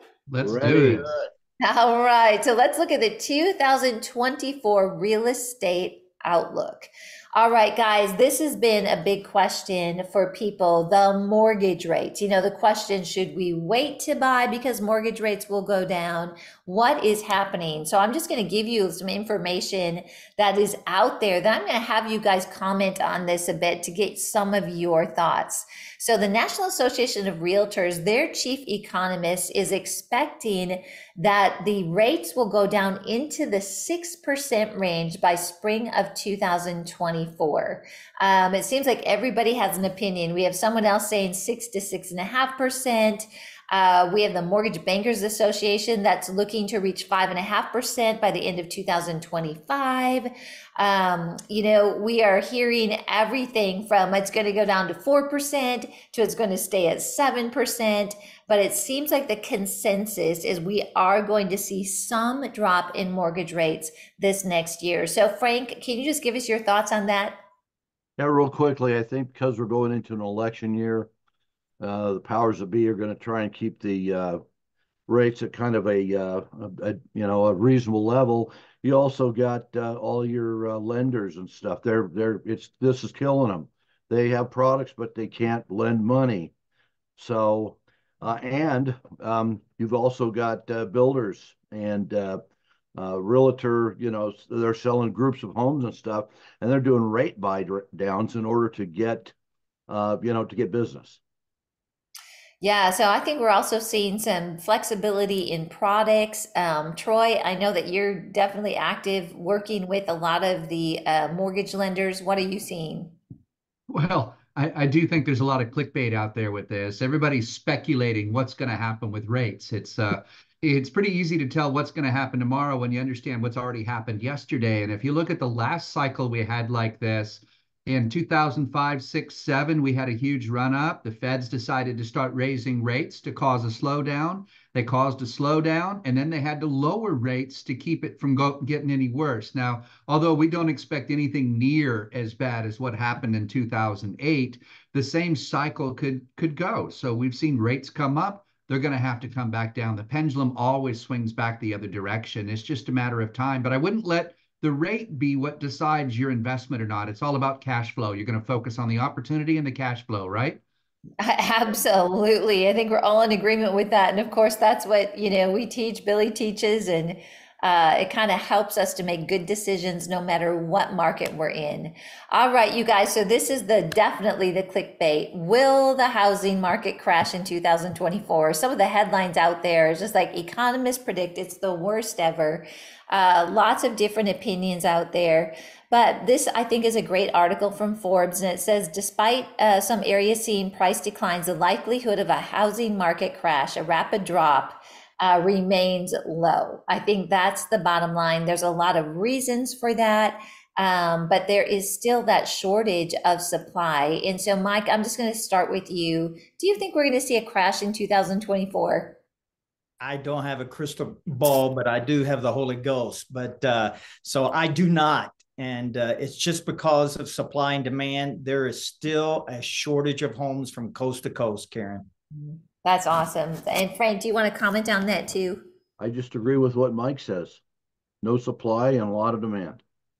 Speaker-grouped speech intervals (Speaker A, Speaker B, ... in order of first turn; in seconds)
Speaker A: 0.3-1.1, 113.9-160.6
Speaker B: 0.4-1.3, 68.2-71.1, 71.8-74.4, 75.1-86.5, 87.2-92.4, 92.9-99.3, 99.9-101.2, 226.0-227.6, 228.2-229.8
Speaker C: 1.6-67.4, 102.6-113.2, 161.2-209.2, 222.4-225.7
Speaker D: 210.0-222.1